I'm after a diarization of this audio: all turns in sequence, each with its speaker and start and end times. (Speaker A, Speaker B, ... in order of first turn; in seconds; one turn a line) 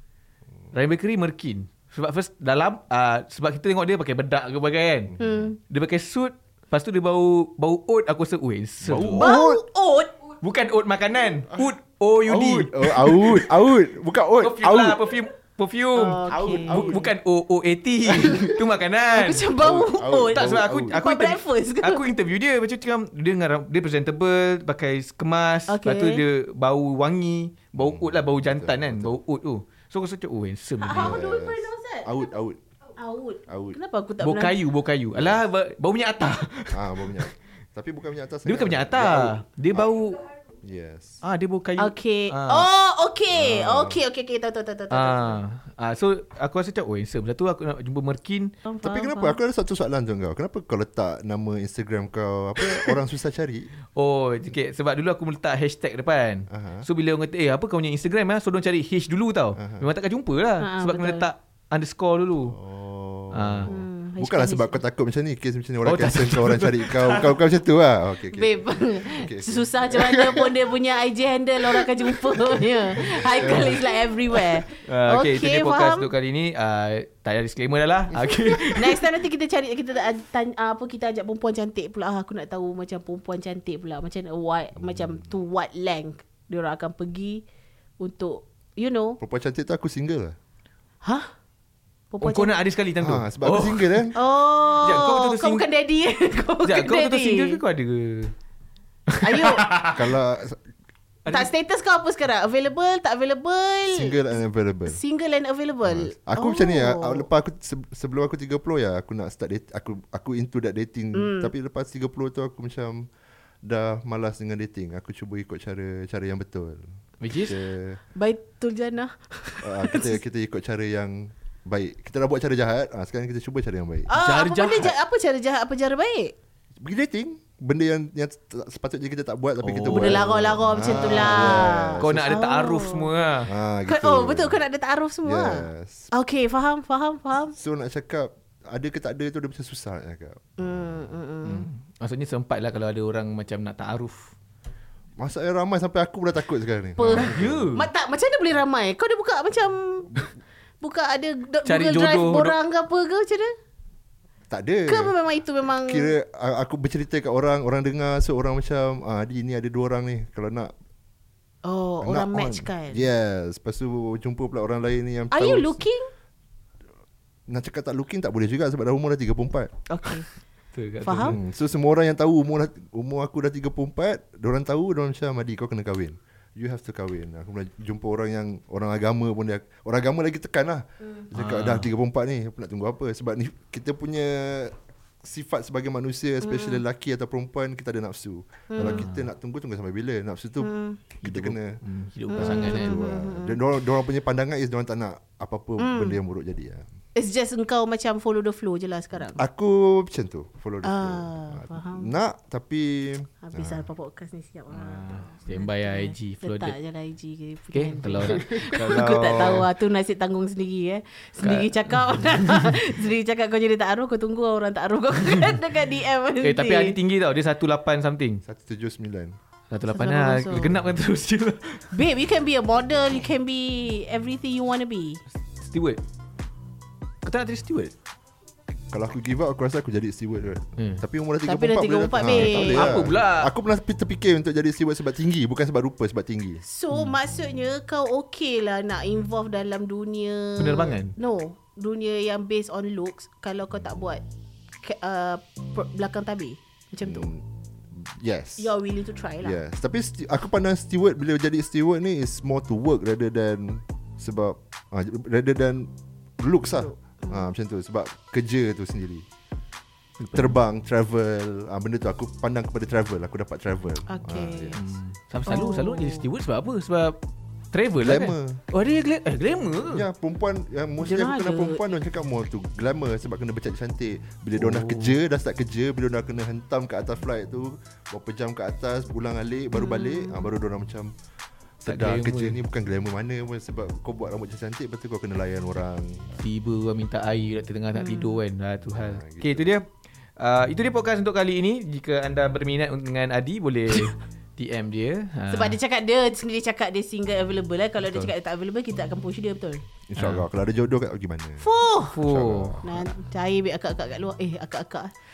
Speaker A: 0.7-9.4
Speaker B: 5.2-5.5
Speaker C: 5.2-5.6
Speaker B: 8.8-9.6
Speaker C: 9.1-10.1
Speaker A: 10.4-13.5
Speaker B: 11.5-15.1
Speaker A: 14.4-19.5
Speaker C: 16.0-17.0
Speaker B: 16.3-17.1
Speaker B: 18.2-18.5
Speaker C: 19.1-22.0
Speaker B: 19.6-21.0
Speaker A: 20.4-31.2
Speaker C: 25.7-26.2
Speaker B: 27.8-29.2
Speaker C: 30.8-32.1
Speaker B: 30.9-32.6
Speaker C: 33.0-34.6
Speaker B: 33.5-33.8
Speaker A: 34.2-37.3
Speaker B: 35.1-35.4
Speaker B: 36.7-39.9
Speaker A: 38.5-40.3
Speaker B: 40.6-41.2
Speaker A: 41.2-42.7
Speaker C: 41.8-45.4
Speaker B: 43.3-44.0
Speaker A: 44.9-48.5
Speaker C: 48.6-49.4
Speaker B: 48.8-53.7
Speaker A: 54.0-62.6
Speaker B: 56.5-56.9
Speaker B: 59.6-59.9
Speaker C: 60.6-61.3
Speaker B: 62.5-70.6
Speaker A: 63.3-63.7
Speaker C: 63.7-64.8
Speaker A: 65.8-67.4
Speaker C: 68.3-76.1
Speaker B: 71.6-74.6
Speaker A: 74.8-79.0
Speaker B: 78.1-78.6
Speaker C: 78.6-87.4
Speaker B: 84.8-85.3
Speaker C: 88.0-89.2
Speaker B: 89.2-90.4
Speaker C: 91.0-91.3
Speaker C: 92.1-92.5
Speaker A: 92.2-94.1
Speaker B: 93.0-94.2
Speaker C: 94.1-97.6
Speaker A: 94.8-95.6
Speaker A: 96.6-98.3
Speaker A: 99.1-100.1
Speaker C: 99.2-99.7
Speaker B: 99.9-100.6
Speaker A: 101.2-101.5
Speaker C: 101.3-107.3
Speaker B: 103.9-105.0
Speaker B: 105.8-113.1
Speaker C: 111.1-111.5
Speaker B: 113.6-118.0
Speaker A: 117.2-117.6
Speaker C: 118.2-120.2
Speaker B: 119.6-124.1
Speaker C: 124.1-126.3
Speaker A: 124.1-124.9
Speaker B: 126.8-132.4
Speaker A: 129.6-130.3
Speaker C: 129.9-133.1
Speaker A: 130.9-133.5
Speaker B: 133.5-134.6
Speaker C: 133.9-137.6
Speaker B: 135.2-136.1
Speaker B: 137.6-140.8
Speaker C: 140.6-141.7
Speaker A: 141.4-144.3
Speaker B: 145.2-147.7
Speaker C: 147.0-150.3
Speaker A: 147.1-147.9
Speaker C: 150.8-153.6
Speaker A: 151.7-152.6
Speaker B: 154.5-155.1
Speaker C: 154.9-156.1
Speaker B: 155.8-160.7
Speaker C: 161.7-163.1
Speaker B: 162.0-165.8
Speaker C: 165.3-166.1
Speaker B: 167.5-169.7
Speaker C: 169.9-170.3
Speaker A: 170.7-171.4
Speaker C: 171.0-171.4
Speaker B: 171.2-191.8
Speaker A: 181.3-181.9
Speaker C: 186.4-186.8
Speaker C: 188.7-189.1
Speaker A: 188.8-189.3
Speaker C: 190.6-191.0
Speaker A: 191.2-193.0
Speaker C: 192.3-193.6
Speaker B: 192.3-196.9
Speaker C: 195.8-196.2
Speaker C: 197.2-199.4
Speaker B: 199.3-203.9
Speaker C: 200.8-202.1
Speaker C: 203.4-217.0
Speaker A: 204.7-206.8
Speaker A: 207.7-209.7
Speaker B: 208.3-209.7
Speaker A: 211.4-212.8
Speaker A: 216.4-218.4
Speaker B: 218.4-219.4
Speaker A: 219.7-221.9
Speaker C: 219.9-220.8
Speaker C: 221.9-225.2
Speaker A: 225.6-226.0
Speaker A: 227.2-227.9
Speaker B: 228.9-236.6
Speaker A: 230.8-231.0
Speaker C: 231.4-233.0
Speaker A: 232.2-233.5
Speaker C: 236.6-244.2
Speaker A: 240.6-241.1
Speaker C: 244.8-247.3
Speaker B: 247.0-248.7
Speaker C: 248.6-249.6
Speaker B: 249.4-259.3
Speaker C: 256.8-257.5
Speaker A: 260.2-260.5
Speaker B: 260.3-264.8
Speaker C: 264.1-264.8
Speaker A: 264.8-267.2
Speaker C: 265.5-266.3
Speaker A: 267.7-270.1
Speaker B: 268.0-268.6
Speaker B: 269.9-281.1
Speaker C: 271.0-271.8
Speaker A: 274.6-275.2
Speaker C: 279.7-280.5
Speaker B: 281.8-286.3
Speaker A: 281.9-282.6
Speaker A: 286.4-289.9
Speaker C: 287.9-288.4
Speaker B: 288.9-289.7
Speaker A: 290.4-295.8
Speaker C: 295.5-299.8
Speaker B: 300.1-301.6
Speaker A: 300.2-300.4
Speaker C: 301.6-302.1
Speaker A: 302.1-302.8
Speaker B: 302.2-303.1
Speaker C: 302.8-305.1